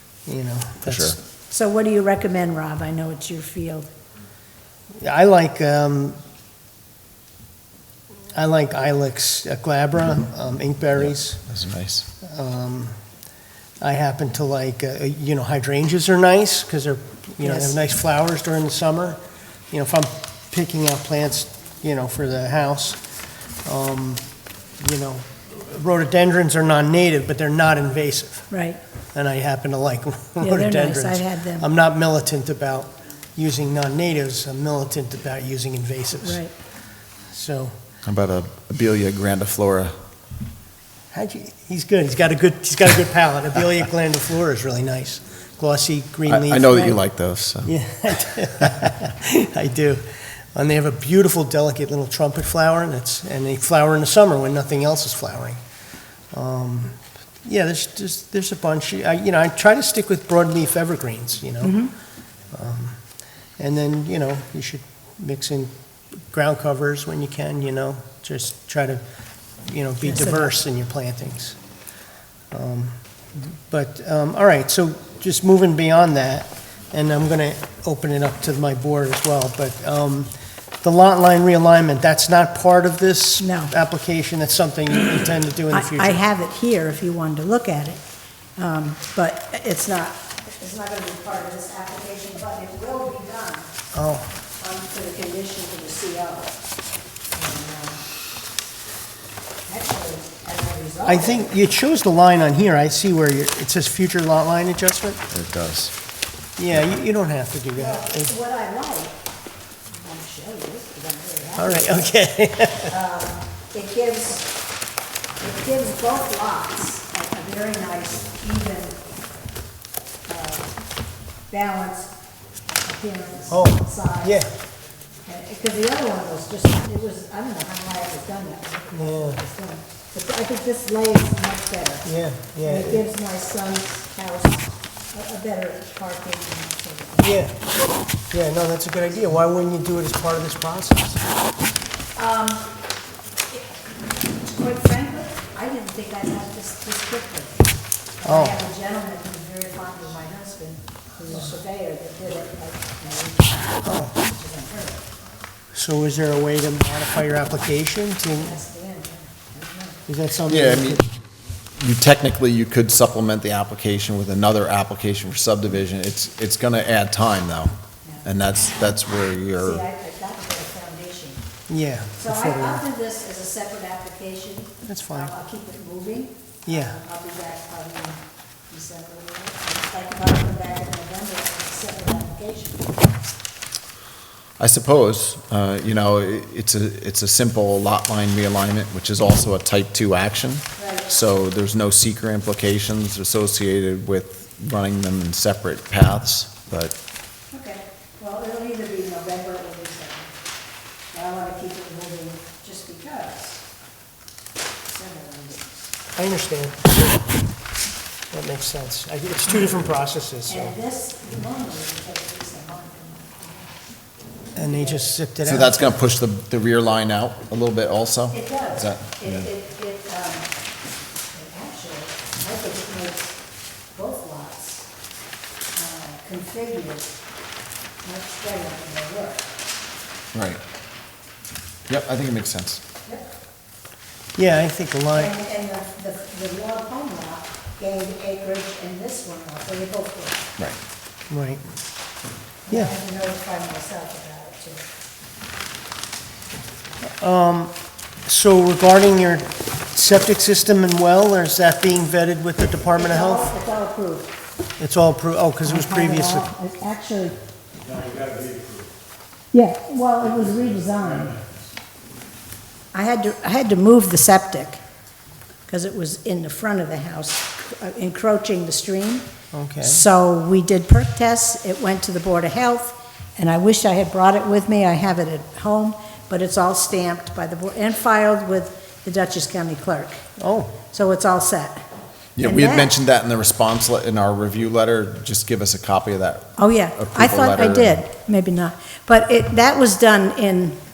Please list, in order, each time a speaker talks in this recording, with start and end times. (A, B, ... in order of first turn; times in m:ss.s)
0:00.3-0:01.2 A
0:00.8-0:01.2 B
0:01.5-0:03.9 C
0:05.0-0:06.2 A
0:08.4-0:11.4 A
0:11.0-0:12.1 B
0:12.2-0:12.9 A
0:13.8-0:23.0 A
0:17.4-0:17.8 C
0:23.6-0:24.2 A
0:24.8-0:28.5 A
0:28.5-0:28.8 C
0:29.1-0:36.4 A
0:30.4-0:31.7 C
0:36.2-0:36.5 C
0:37.3-0:37.7 A
0:38.0-0:40.0 B
0:41.1-0:47.0 A
0:46.3-0:47.7 B
0:47.6-0:55.6 A
0:56.3-1:01.8 A
1:01.6-1:01.9 C
1:02.5-1:03.0 A
1:03.6-1:05.7 A
1:06.2-1:09.0 A
1:09.6-1:11.6 A
1:10.0-1:10.5 C
1:12.5-1:26.2 A
1:23.4-1:23.7 C
1:25.7-1:28.0 C
1:28.6-1:33.7 C
1:33.9-1:34.3 A
1:34.6-1:36.6 C
1:37.3-1:38.0 C
1:39.7-1:41.5 C
1:41.1-1:45.2 A
1:45.3-1:45.9 B
1:46.6-1:48.3 A
1:47.8-1:49.2 C
1:50.0-1:52.1 C
1:51.6-1:52.9 A
1:52.9-1:54.5 C
1:55.4-1:59.0 C
2:00.3-2:00.7 C
2:01.5-2:02.1 C
2:02.8-2:04.4 C
2:03.5-2:04.5 A
2:05.3-2:12.1 C
2:08.9-2:09.4 A
2:12.0-2:13.0 A
2:12.6-2:17.4 C
2:17.2-2:17.6 A
2:18.3-2:21.2 A
2:22.2-2:22.7 C
2:24.4-2:35.1 C
2:28.3-2:28.6 A
2:33.8-2:34.1 A
2:35.7-2:38.6 A
2:38.4-2:40.0 C
2:40.1-2:41.0 A
2:40.5-2:41.0 B
2:41.8-2:49.8 B
2:49.6-2:51.4 C
2:51.7-2:52.8 A
2:52.2-3:03.0 C
2:54.9-2:55.3 A
2:56.7-2:57.0 A
3:04.6-3:16.9 B
3:10.8-3:11.1 C
3:17.5-3:20.3 C
3:21.1-3:23.6 C
3:24.9-3:25.9 C
3:26.2-3:27.3 A
3:28.3-3:30.7 A
3:30.5-3:33.7 C
3:34.6-3:35.1 C
3:34.6-3:35.9 A
3:35.4-3:39.5 B
3:38.3-3:40.5 C
3:41.3-3:43.4 C
3:43.9-3:44.9 C
3:45.7-3:47.1 C
3:48.0-3:49.6 C
3:50.3-3:50.6 B
3:51.9-3:52.8 B
3:54.4-3:55.4 A
3:55.1-4:00.5 C
4:01.3-4:01.6 A
4:02.7-4:04.9 C
4:07.2-4:07.7 A
4:08.3-4:13.5 A
4:12.9-4:14.3 C
4:14.8-4:16.5 A
4:15.6-4:18.6 C
4:19.5-4:21.4 C
4:22.9-4:24.8 C
4:25.7-4:29.3 C
4:29.5-4:30.0 A
4:29.8-4:40.2 C
4:40.4-4:40.8 A
4:40.9-4:41.8 C
4:42.4-4:48.0 B
4:42.4-4:42.9 C
4:46.6-4:50.8 C